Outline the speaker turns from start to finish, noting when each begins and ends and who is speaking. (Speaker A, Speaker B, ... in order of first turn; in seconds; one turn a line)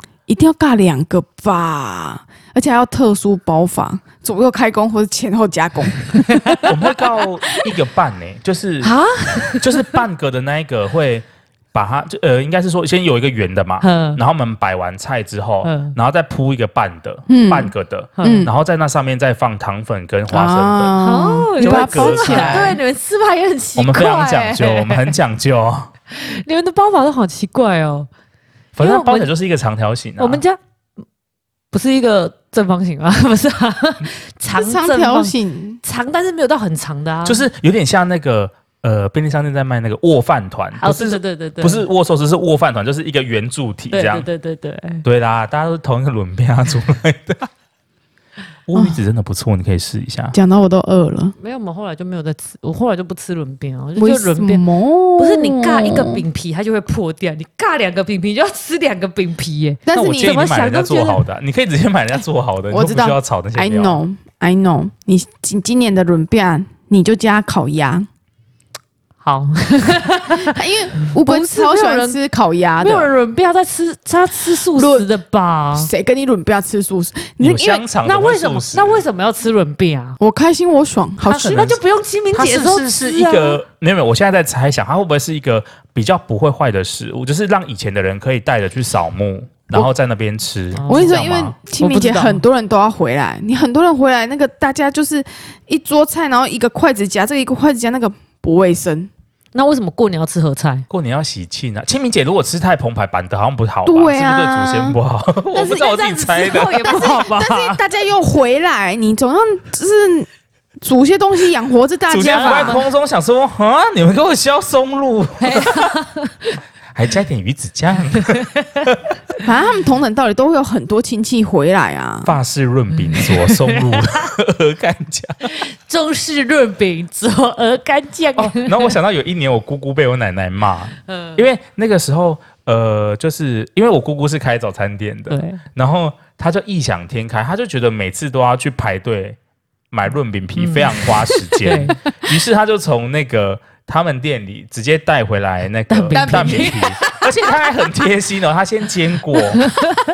Speaker A: 0.3-6.7
Speaker B: 6.2-6.7
Speaker C: 6.6-8.9
Speaker B: 8.8-10.0
Speaker C: 9.6-20.9
Speaker B: 13.8-14.2
Speaker B: 15.6-15.9
Speaker A: 17.3-18.5
Speaker B: 18.2-18.5
Speaker A: 20.3-22.8
Speaker B: 21.0-25.1
Speaker C: 21.6-22.8
Speaker C: 23.8-25.9
Speaker B: 26.1-28.1
Speaker C: 28.8-30.4
Speaker B: 28.8-29.3
Speaker B: 30.2-30.6
Speaker B: 31.7-37.5
Speaker A: 34.5-35.8
Speaker C: 37.2-44.3
Speaker B: 40.8-41.9
Speaker B: 43.9-45.0
Speaker C: 45.0-47.5
Speaker C: 48.6-50.4
Speaker A: 50.3-51.3
Speaker B: 51.4-54.6
Speaker A: 54.0-56.2
Speaker B: 55.2-61.2
Speaker A: 59.9-60.4
Speaker C: 59.9-64.0
Speaker A: 62.7-68.1
Speaker B: 69.2-72.2
Speaker A: 70.4-73.1
Speaker B: 72.8-75.9
Speaker A: 74.6-75.1
Speaker A: 75.7-77.8
Speaker C: 77.4-79.0
Speaker B: 78.0-80.2
Speaker A: 80.2-81.8
Speaker C: 81.3-81.8
Speaker B: 81.3-83.6
Speaker C: 82.3-91.5
Speaker B: 90.8-92.4
Speaker A: 90.8-99.1
Speaker B: 99.5-100.9
Speaker C: 100.9-107.0
Speaker A: 103.8-105.0
Speaker B: 105.5-107.8
Speaker A: 106.8-110.3
Speaker A: 110.8-112.8
Speaker C: 112.1-115.9
Speaker B: 112.2-112.8
Speaker B: 115.4-116.6
Speaker C: 116.9-119.2
Speaker B: 118.2-118.6
Speaker A: 119.4-122.3
Speaker C: 122.2-125.5
Speaker B: 122.9-124.2
Speaker B: 125.4-129.0
Speaker C: 128.4-139.4
Speaker B: 131.1-131.4
Speaker B: 135.3-135.6
Speaker C: 139.9-149.7
Speaker B: 140.6-142.0
Speaker B: 145.9-147.2
Speaker A: 146.1-146.9
Speaker B: 149.6-150.0